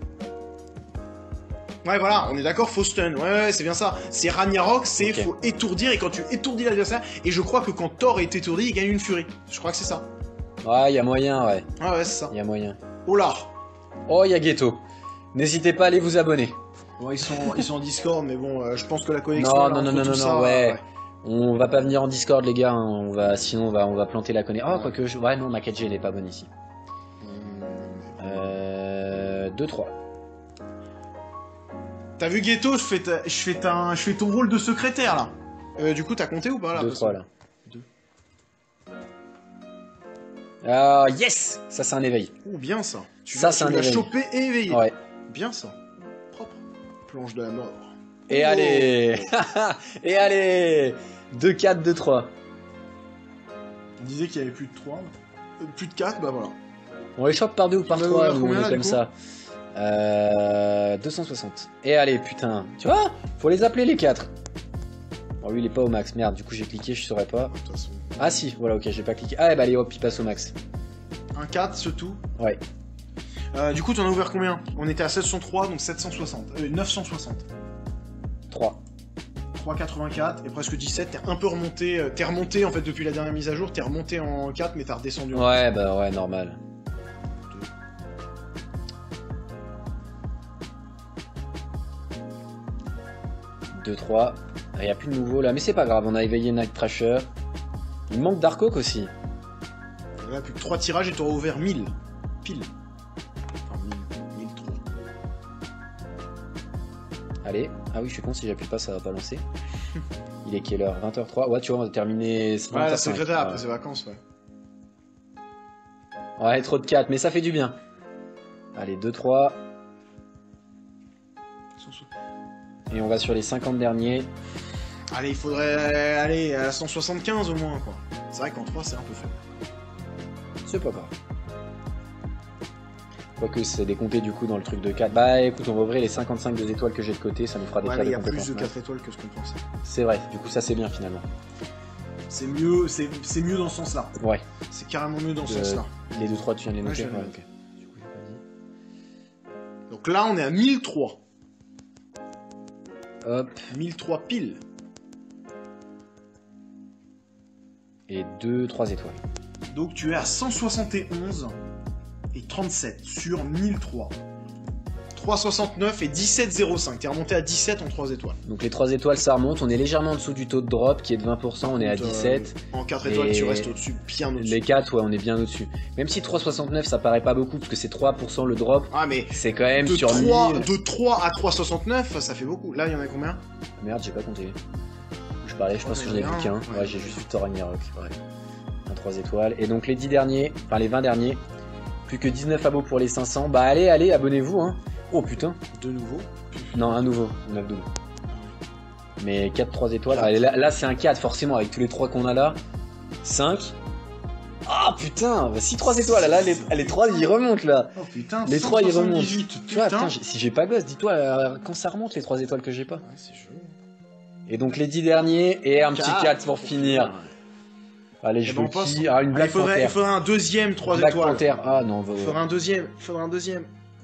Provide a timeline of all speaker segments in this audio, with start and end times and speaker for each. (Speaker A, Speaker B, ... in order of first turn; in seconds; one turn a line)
Speaker A: 1.8-10.1
Speaker B: 5.0-5.3
Speaker B: 10.6-11.7
Speaker A: 11.8-12.3
Speaker B: 12.3-12.8
Speaker A: 13.1-13.6
Speaker B: 14.1-14.8
Speaker B: 15.3-16.6
Speaker A: 17.0-20.8
Speaker B: 19.4-26.5
Speaker A: 24.7-25.0
Speaker A: 27.2-28.5
Speaker B: 28.2-29.9
Speaker A: 32.2-37.9
Speaker B: 36.7-37.3
Speaker B: 40.6-42.3
Speaker A: 42.4-49.2
Speaker B: 43.3-44.1
Speaker B: 44.7-45.0
Speaker B: 48.3-52.3
Speaker A: 54.0-56.6
Speaker B: 57.2-59.1
Speaker A: 57.9-59.0
Speaker B: 59.8-64.3
Speaker B: 65.4-67.5
Speaker A: 67.5-68.4
Speaker B: 68.2-70.5
Speaker A: 71.3-72.2
Speaker A: 73.5-77.5
Speaker B: 78.5-78.8
Speaker A: 79.5-85.6
Speaker B: 85.3-86.6
Speaker B: 93.8-97.3
Speaker B: 98.1-99.1
Speaker A: 100.2-102.7
Speaker A: 103.7-104.8
Speaker B: 107.4-109.4
Speaker B: 110.4-113.7
Speaker A: 112.7-114.2
Speaker B: 116.4-117.8
Speaker B: 118.8-119.6
Speaker A: 121.8-122.1
Speaker B: 122.9-124.3
Speaker A: 125.1-129.4
Speaker B: 130.7-131.1
Speaker B: 133.4-138.7
Speaker A: 137.8-139.6
Speaker B: 139.8-141.2
Speaker A: 142.3-144.2
Speaker B: 144.2-144.4
Speaker A: 144.7-146.1
Speaker B: 145.4-148.4
Speaker A: 146.8-147.4
Speaker A: 149.9-151.2
Speaker B: 153.2-153.7
Speaker A: 153.7-154.6
Speaker B: 158.1-159.2
Speaker A: 159.7-161.6
Speaker A: 162.3-164.2
Speaker A: 165.1-168.4
Speaker B: 168.4-173.7
Speaker A: 171.6-174.6
Speaker B: 174.4-180.7
Speaker A: 178.9-183.4
Speaker B: 183.8-184.6
Speaker B: 185.4-188.2
Speaker A: 185.8-187.3
Speaker B: 188.9-191.4
Speaker B: 192.1-195.6
Speaker A: 195.7-197.1
Speaker B: 196.7-197.9
Speaker A: 198.3-198.6
Speaker B: 199.2-202.6
Speaker A: 200.1-200.4
Speaker B: 203.2-203.8
Speaker B: 204.7-213.0
Speaker A: 205.9-207.4
Speaker A: 207.9-210.2
Speaker A: 213.0-213.8
Speaker B: 214.5-217.2
Speaker A: 215.8-217.3
Speaker B: 218.2-220.0
Speaker A: 218.4-221.5
Speaker B: 220.9-222.4
Speaker A: 222.2-223.7